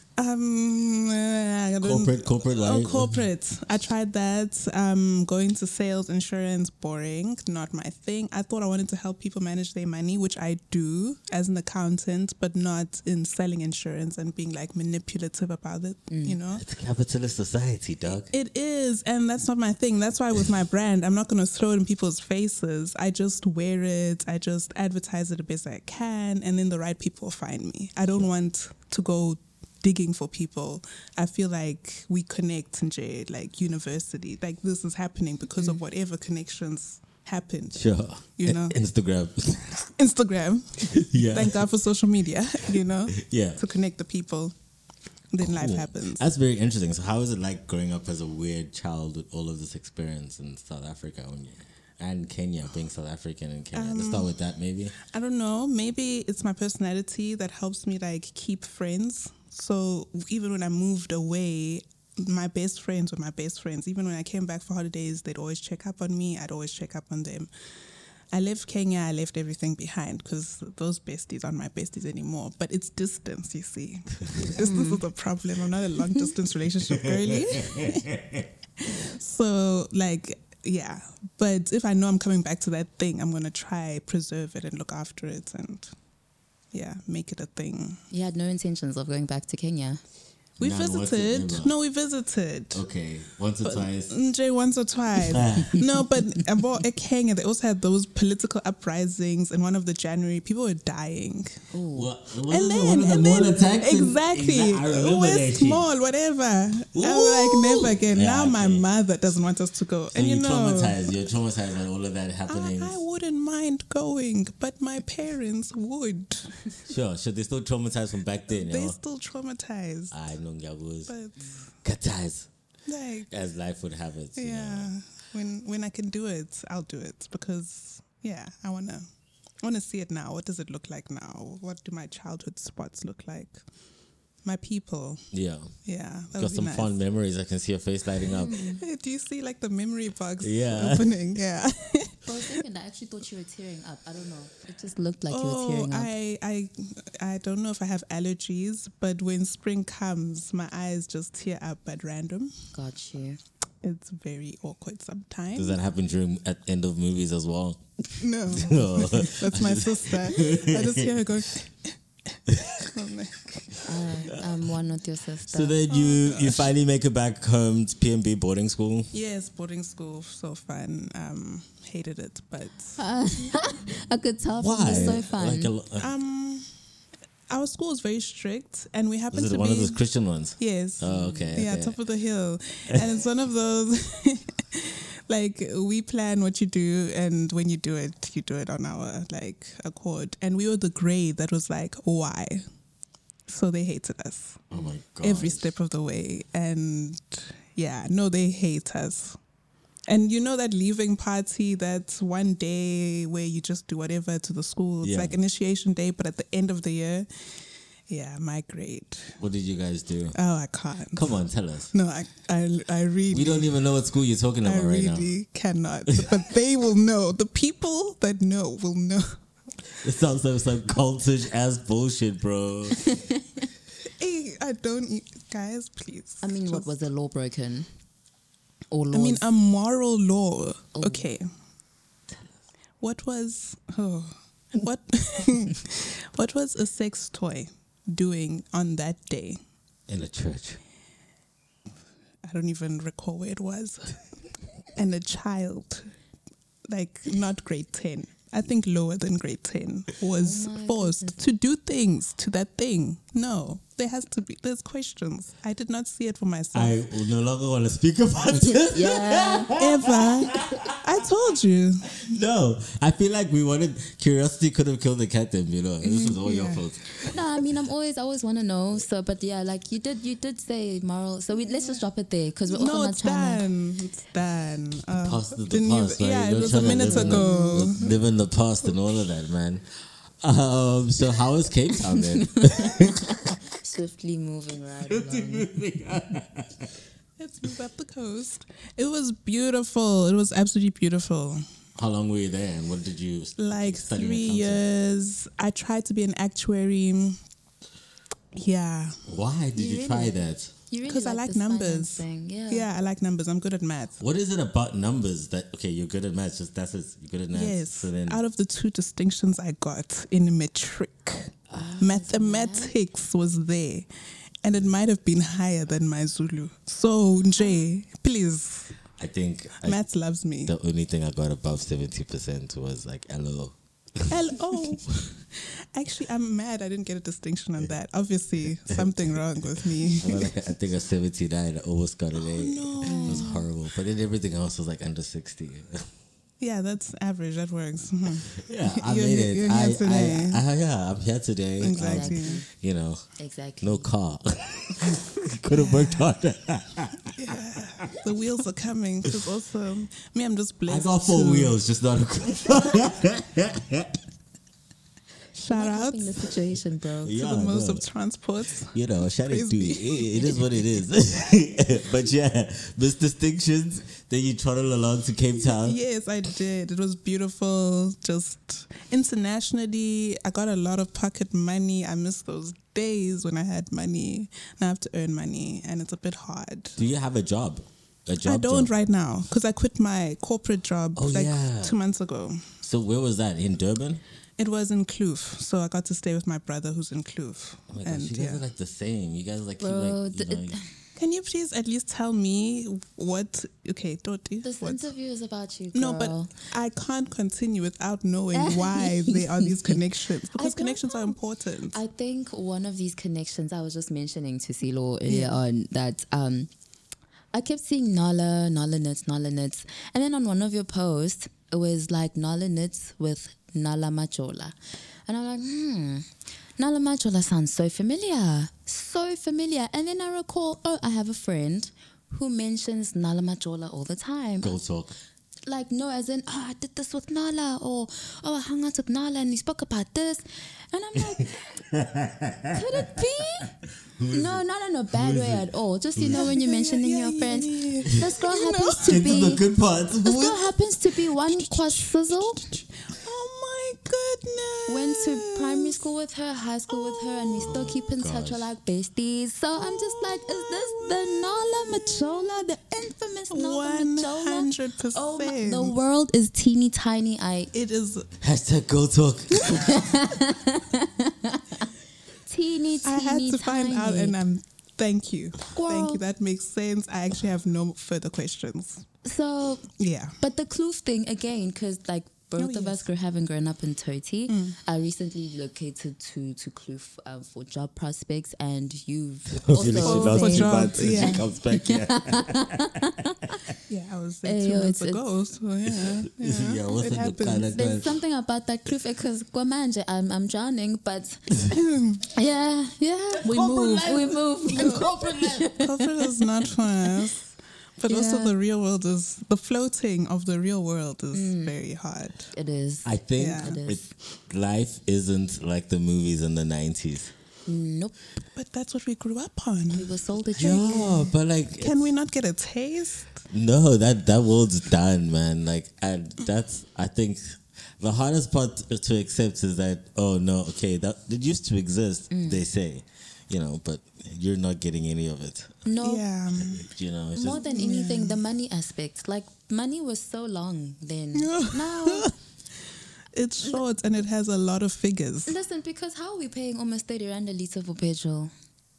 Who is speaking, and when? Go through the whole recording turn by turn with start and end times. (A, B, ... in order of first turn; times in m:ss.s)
0:00.2-0:16.6 A
0:01.8-0:03.2 B
0:16.1-0:16.4 C
0:16.5-0:18.3 B
0:18.3-0:37.8 A
0:37.7-0:39.7 B
0:38.4-0:38.8 A
0:39.8-0:44.5 A
0:40.9-0:41.7 B
0:43.1-0:43.6 B
0:45.3-0:46.2 A
0:45.4-0:55.0 B
0:53.7-0:54.3 A
0:55.0-1:07.5 A
1:08.3-1:18.1 A
1:14.6-1:15.0 C
1:16.9-1:18.5 B
1:18.8-1:25.9 A
1:26.7-1:28.0 A
1:28.1-1:30.0 C
1:30.6-1:32.8 A
1:30.6-1:31.7 B
1:32.7-1:34.1 B
1:33.6-1:41.6 A
1:35.2-1:35.8 B
1:41.7-1:42.1 C
1:41.9-1:45.8 B
1:42.5-1:51.1 A
1:46.9-1:48.8 B
1:50.1-1:53.0 B
1:52.5-1:56.7 A
1:56.9-1:59.0 B
1:58.5-2:00.1 A
2:00.1-2:01.1 B
2:01.1-2:01.6 A
2:01.8-2:02.5 B
2:02.9-2:03.3 A
2:03.3-2:04.9 B
2:04.4-2:09.0 A
2:09.6-2:13.6 A
2:14.4-2:15.2 A
2:15.3-2:15.7 B
2:15.8-2:17.0 A
2:16.3-2:18.5 B
2:18.3-2:18.8 C
2:18.7-2:22.6 A
2:20.4-2:21.1 B
2:22.2-2:26.1 C
2:25.3-2:32.5 A
2:32.7-2:33.4 C
2:33.8-2:35.8 A
2:35.5-2:41.2 B
2:38.2-2:42.0 A
2:42.5-2:42.9 B
2:42.8-2:43.8 A
2:43.8-2:45.8 C
2:45.5-2:49.1 B
2:45.9-2:46.7 A
2:49.1-2:53.0 A
2:53.0-2:55.7 C
2:54.6-2:56.1 B
2:56.0-2:56.7 A
2:57.5-3:00.0 A
2:59.3-3:02.0 B
3:00.6-3:12.6 A
3:01.1-3:01.5 C
3:13.5-3:19.4 A
3:14.7-3:15.7 B
3:20.1-3:27.3 A
3:25.0-3:25.3 B
3:28.1-3:29.4 A
3:29.4-3:30.4 B
3:30.3-3:31.4 A
3:31.1-3:31.9 B
3:31.9-3:33.7 A
3:33.3-3:35.3 B
3:34.6-3:39.4 A
3:40.0-3:43.0 B
3:44.0-3:46.9 A
3:46.4-3:47.9 C
3:48.9-3:49.4 C
3:49.1-3:51.5 A
3:50.9-3:51.2 C
3:53.0-3:59.6 A
4:00.1-4:00.8 B
4:02.4-4:04.2 A
4:05.0-4:06.1 A
4:06.9-4:17.0 A
4:10.4-4:11.4 C
4:16.7-4:21.0 B
4:18.5-4:19.7 C
4:19.7-4:22.3 A
4:22.1-4:27.4 B
4:26.1-4:26.4 C
4:26.4-4:26.8 A
4:27.2-4:33.6 C
4:31.6-4:32.0 A
4:32.7-4:38.0 A
4:35.2-4:39.8 B
4:37.0-4:38.0 C
4:40.4-4:43.5 B
4:42.1-4:45.7 C
4:45.1-4:46.9 B
4:47.4-4:51.6 A
4:52.0-4:54.8 B
4:53.6-4:57.4 A
4:58.5-4:59.2 A
4:59.3-5:00.7 B
4:59.8-5:02.9 C
5:01.0-5:04.2 A
5:04.2-5:08.4 B
5:07.5-5:14.1 A
5:11.7-5:12.0 B
5:11.7-5:12.9 C
5:14.6-5:18.9 A
5:19.2-5:20.0 B
5:19.8-5:20.7 A
5:20.6-5:24.3 B
5:24.3-5:30.5 A
5:28.8-5:29.1 B
5:30.2-5:36.1 B
5:32.4-5:33.6 A
5:33.0-5:33.6 C
5:36.6-5:40.6 A
5:38.6-5:43.2 B
5:41.8-5:42.6 A
5:42.0-5:42.7 C
5:43.4-5:44.1 C
5:43.8-5:48.2 B
5:45.7-5:46.3 A
5:47.3-5:51.8 A
5:50.9-5:54.2 B
5:55.6-5:56.5 A
5:55.7-5:57.4 C
5:57.2-5:58.0 B
5:57.3-6:00.6 A
5:58.9-6:06.0 B
6:05.6-6:17.0 A
6:17.0-6:18.9 B
6:18.4-6:22.6 A
6:21.2-6:22.0 B
6:22.8-6:24.2 B
6:24.6-6:28.6 A
6:27.9-6:30.8 B
6:29.8-6:30.9 C
6:31.2-6:35.1 A
6:34.6-6:36.5 C
6:35.9-6:42.0 A
6:38.5-6:40.0 C
6:40.6-6:41.4 C
6:41.9-6:46.7 C
6:45.3-6:45.5 A
6:47.5-6:56.3 C
6:56.8-7:04.8 C
7:04.6-7:05.1 B
7:05.6-7:11.8 C
7:11.2-7:13.2 B
7:12.7-7:13.7 C
7:14.2-7:16.5 B
7:14.3-7:19.6 C
7:16.2-7:19.3 A
7:19.0-7:20.7 B
7:20.2-7:22.7 C
7:21.5-7:26.0 A
7:24.9-7:37.7 C
7:26.9-7:27.6 A
7:27.6-7:28.6 B
7:29.8-7:32.6 A
7:33.5-7:36.0 A
7:37.7-7:38.3 A
7:38.4-7:40.1 B
7:39.6-7:41.9 C
7:42.4-7:44.4 C
7:43.0-7:49.0 A
7:45.7-7:46.2 C
7:49.2-7:49.9 C
7:50.0-7:50.4 A
7:50.4-8:03.6 C
7:52.6-7:53.1 A
7:54.5-7:54.8 A
7:59.5-8:03.0 B
7:59.8-8:01.4 A
8:03.9-8:07.8 A
8:04.4-8:05.2 C
8:05.9-8:08.1 B
8:07.8-8:11.6 C
8:11.7-8:12.2 A
8:12.3-8:17.3 C
8:13.4-8:15.7 B
8:14.7-8:15.1 A
8:15.7-8:22.5 A
8:18.1-8:18.6 C
8:21.3-8:21.8 C
8:22.5-8:24.1 C
8:23.0-8:27.3 B
8:23.4-8:23.8 A
8:27.6-8:28.2 C
8:28.5-8:30.2 A
8:29.9-8:31.3 C
8:30.6-8:32.1 B
8:31.8-8:33.5 A
8:33.5-8:45.8 B
8:42.3-8:42.6 C
8:45.8-8:46.2 C
8:46.0-8:46.9 A
8:46.5-8:47.6 B
8:47.4-8:52.3 C
8:47.6-8:48.4 A
8:51.3-8:52.3 A
8:53.3-8:55.5 A
8:55.4-8:58.5 C